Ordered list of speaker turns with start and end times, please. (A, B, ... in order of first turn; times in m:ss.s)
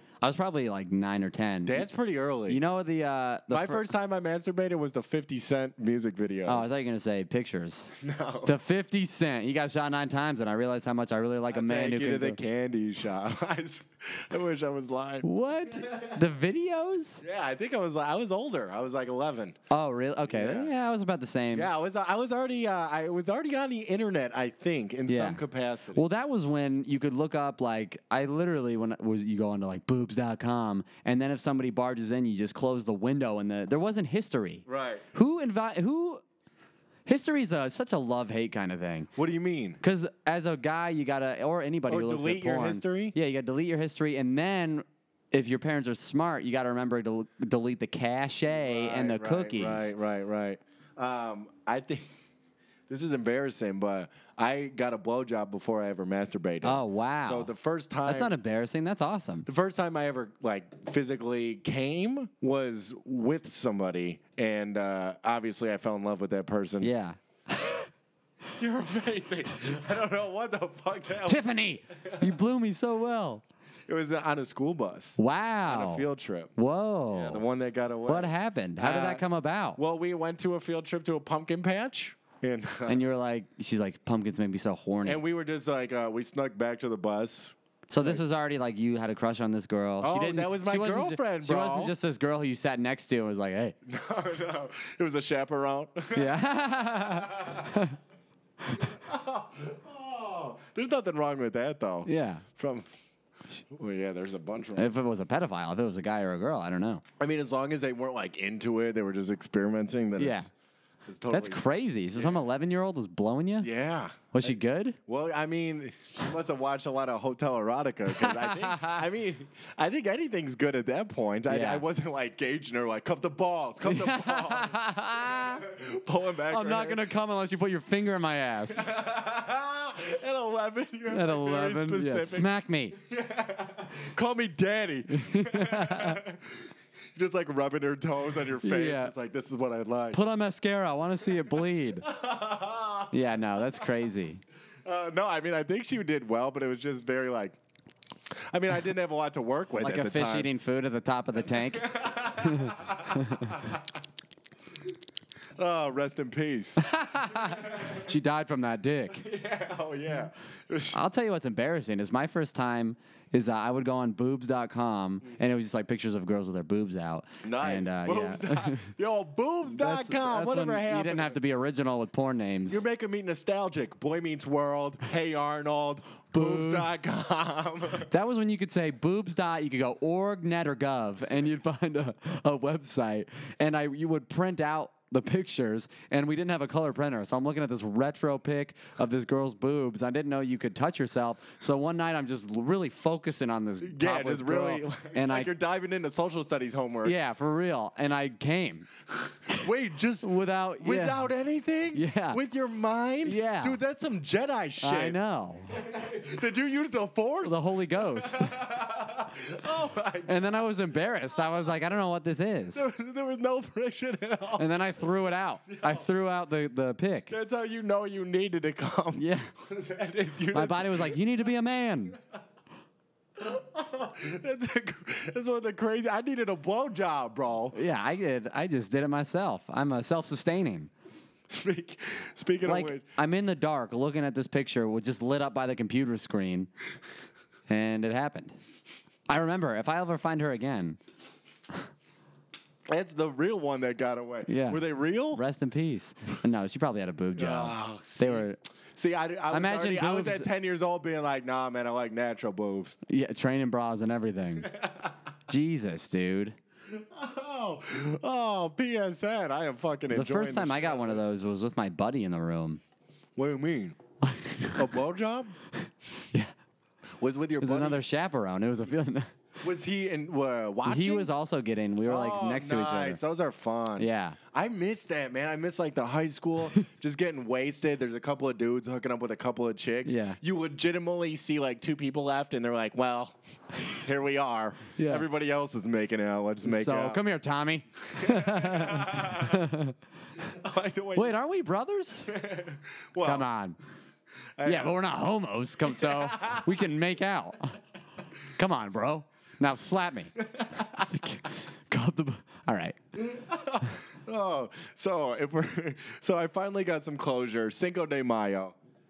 0:00.2-0:01.8 A
0:01.6-0:02.6 B
0:02.5-0:03.9 A
0:03.5-0:06.7 B
0:06.4-0:07.9 A
0:08.0-0:08.6 B
0:08.4-0:12.4 A
0:11.5-0:15.2 B
0:15.2-0:17.2 A
0:15.8-0:16.0 B
0:17.2-0:19.6 B
0:19.7-0:21.7 A
0:20.3-0:20.7 B
0:21.5-0:26.0 B
0:25.1-0:25.4 A
0:25.9-0:36.2 A
0:34.7-0:35.0 B
0:37.0-0:39.1 A
0:39.2-0:39.8 B
0:39.8-0:49.9 A
0:41.9-0:43.2 B
0:48.5-0:52.0 B
0:52.9-0:58.3 B
0:56.6-0:57.5 A
0:58.0-0:59.5 A
0:59.5-1:06.9 B
1:06.8-1:07.9 A
1:08.6-1:11.4 B
1:11.2-1:13.4 A
1:13.9-1:16.5 B
1:15.2-1:16.0 A
1:16.6-1:17.4 A
1:17.1-1:19.2 B
1:18.1-1:19.8 A
1:19.8-1:23.0 B
1:22.9-1:25.2 A
1:25.0-1:28.2 B
1:27.9-1:33.7 A
1:30.0-1:31.9 B
1:33.8-1:37.7 B
1:36.1-1:38.0 A
1:38.8-1:42.9 B
1:42.0-1:42.4 A
1:43.7-1:44.9 B
1:44.8-1:47.0 A
1:47.2-1:50.5 B
1:50.2-1:50.5 A
1:51.0-1:51.6 B
1:51.3-1:53.7 A
1:52.2-1:52.4 B
1:53.6-1:54.5 B
1:54.3-1:55.0 A
1:55.1-2:07.0 B
1:58.2-1:59.0 A
2:01.5-2:01.8 A
2:03.8-2:05.6 A
2:06.5-2:08.9 A
2:08.7-2:20.2 B
2:11.1-2:13.0 A
2:15.1-2:16.2 A
2:18.6-2:19.1 A
2:20.1-2:22.1 A
2:22.0-2:23.1 B
2:23.1-2:24.4 A
2:24.8-2:27.6 B
2:28.5-2:30.5 B
2:29.8-2:33.5 A
2:31.7-2:33.8 B
2:35.6-2:36.8 B
2:36.8-2:39.2 A
2:37.4-2:38.0 B
2:39.1-2:41.0 B
2:40.9-2:48.8 A
2:47.4-2:51.4 B
2:49.7-2:52.8 A
2:52.7-2:58.1 B
2:56.3-2:56.9 A
2:58.1-3:15.5 A
3:13.8-3:17.2 B
3:17.0-3:18.9 A
3:19.5-3:25.2 B
3:20.2-3:21.3 A
3:21.9-3:22.4 A
3:23.2-3:23.8 A
3:24.8-3:25.8 A
3:25.7-3:30.4 B
3:27.4-3:28.6 A
3:30.2-3:32.8 A
3:32.7-3:34.7 B
3:34.6-3:37.3 A
3:35.7-3:36.0 B
3:37.3-3:41.2 B
3:39.1-3:39.5 A
3:40.5-3:42.2 A
3:43.4-3:47.8 B
3:47.7-3:50.9 A
3:51.5-3:53.0 B
3:52.6-3:56.7 A
3:57.7-3:58.6 A
3:59.3-4:01.0 A
4:02.9-4:05.4 B
4:04.5-4:08.6 A
4:07.4-4:13.0 B
4:09.5-4:10.5 A
4:13.1-4:14.7 A
4:14.7-4:15.1 B
4:15.5-4:16.6 A
4:16.9-4:21.2 B
4:20.1-4:22.8 A
4:23.4-4:24.0 B
4:24.2-4:24.9 A
4:24.7-4:25.5 B
4:27.2-4:28.0 B
4:27.6-4:29.3 A
4:29.6-4:31.3 B
4:30.8-4:33.2 A
4:32.0-4:43.4 B
4:34.0-4:34.4 A
4:40.0-4:40.4 A
4:43.9-4:47.2 B
4:45.0-4:45.2 A
4:46.6-4:49.9 A
4:48.2-4:49.7 B
4:50.4-4:51.4 B
4:51.1-4:52.3 A
4:52.3-4:53.5 B
4:53.2-4:53.8 A
4:54.6-4:55.0 B
4:54.6-4:57.8 A
4:56.0-4:56.6 B
4:58.6-5:03.0 A
5:00.5-5:00.9 B
5:03.2-5:08.8 B